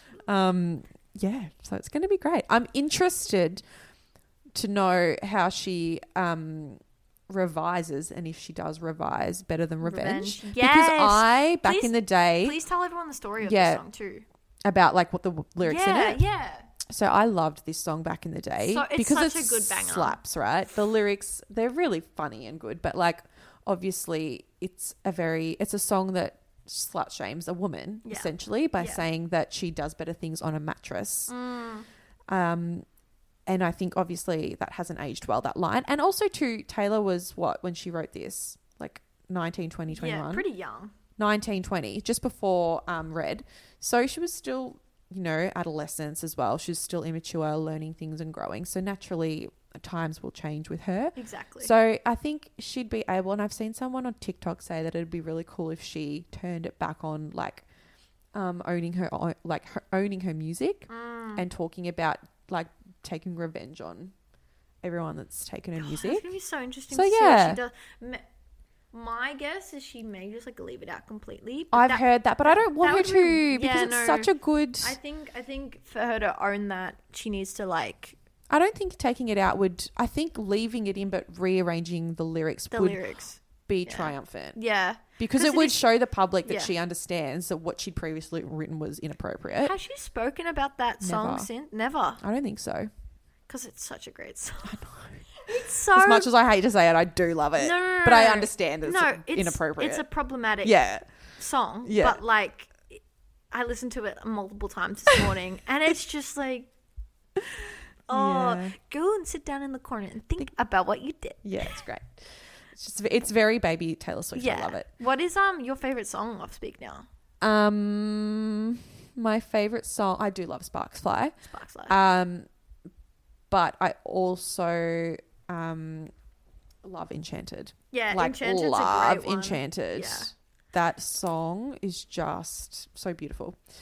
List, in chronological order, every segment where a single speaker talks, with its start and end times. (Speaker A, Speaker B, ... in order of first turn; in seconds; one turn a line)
Speaker A: 0.3-3.6
Speaker A: 4.5-12.6
Speaker B: 9.8-14.2
Speaker A: 13.4-13.8
Speaker A: 14.7-16.2
Speaker B: 15.6-16.7
Speaker A: 16.9-31.3
Speaker B: 18.6-20.2
Speaker B: 28.1-29.0
Speaker B: 31.3-31.9
Speaker A: 32.3-32.9
Speaker A: 33.5-40.5
Speaker B: 39.9-40.9
Speaker A: 41.2-57.7
Speaker B: 51.2-51.7
Speaker A: 58.3-64.1
Speaker B: 60.9-61.5
Speaker A: 64.8-66.3
Speaker B: 65.8-68.2
Speaker A: 66.9-67.6
Speaker B: 68.9-78.2
Speaker A: 71.7-75.0
Speaker A: 78.5-83.0
Speaker B: 82.7-85.8
Speaker A: 83.7-84.6
Speaker A: 85.2-89.8
Speaker B: 86.4-86.7
Speaker B: 89.6-92.2
Speaker A: 91.0-91.5
Speaker A: 92.2-92.9
Speaker B: 93.5-94.8
Speaker A: 94.7-100.0
Speaker B: 95.4-96.3
Speaker B: 97.6-100.8
Speaker A: 100.6-101.0
Speaker B: 101.4-103.0
Speaker A: 101.8-102.2
Speaker B: 103.5-106.7
Speaker B: 108.1-111.8
Speaker A: 108.1-108.8
Speaker A: 111.4-114.9
Speaker B: 114.3-117.1
Speaker A: 117.4-121.3
Speaker B: 121.5-122.0
Speaker A: 121.9-122.5
Speaker A: 123.5-126.1
Speaker A: 126.8-133.6
Speaker B: 127.9-130.3